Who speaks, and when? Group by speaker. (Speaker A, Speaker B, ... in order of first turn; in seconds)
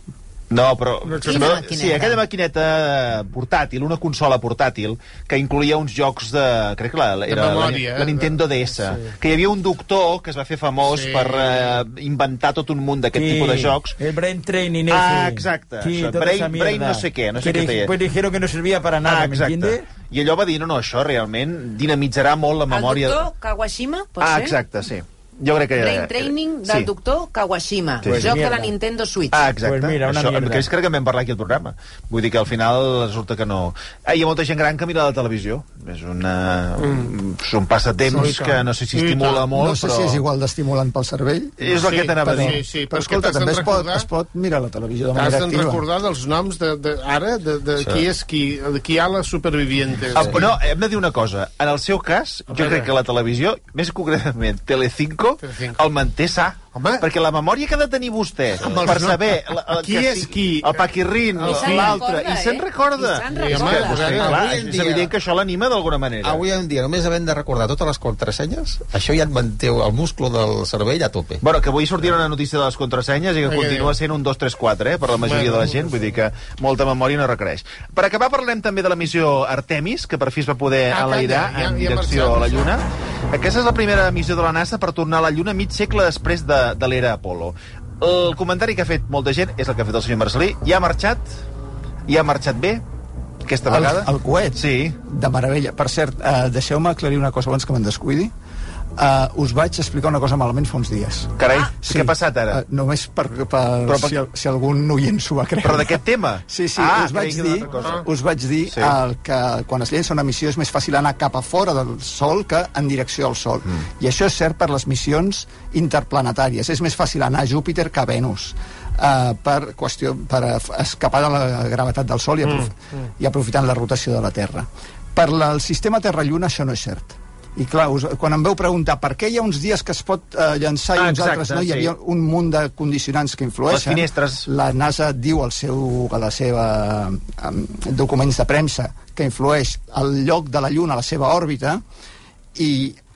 Speaker A: 0.5-14.0, 14.9-18.0, 19.0-23.2, 24.2-26.9, 28.0-28.4, 29.3-40.2, 41.6-42.6, 50.1-66.4, 71.4-91.3, 92.1-92.8, 93.4-95.0, 101.4-102.6, 103.8-104.2, 105.6-108.0, 108.7-109.0, 130.9-131.9, 133.7-134.4
Speaker B: 1.0-1.6, 7.3-9.1, 10.8-11.8, 36.8-37.1, 38.1-39.5, 41.7-44.1, 45.1-50.5, 52.5-52.9, 55.4-55.8, 56.7-57.0, 58.6-62.1, 63.2-64.6, 73.4-74.0, 75.2-75.9, 80.9-82.7, 107.8-108.0
Speaker C: 1.2-2.2, 22.7-24.6, 25.8-29.5, 61.4-64.2
Speaker D: 13.1-19.8, 28.0-28.7, 29.6-30.7
Speaker E: 39.5-45.8, 93.7-98.3, 99.0-141.8, 142.5-143.0
Speaker F: 47.8-48.0, 64.0-65.1, 66.2-71.4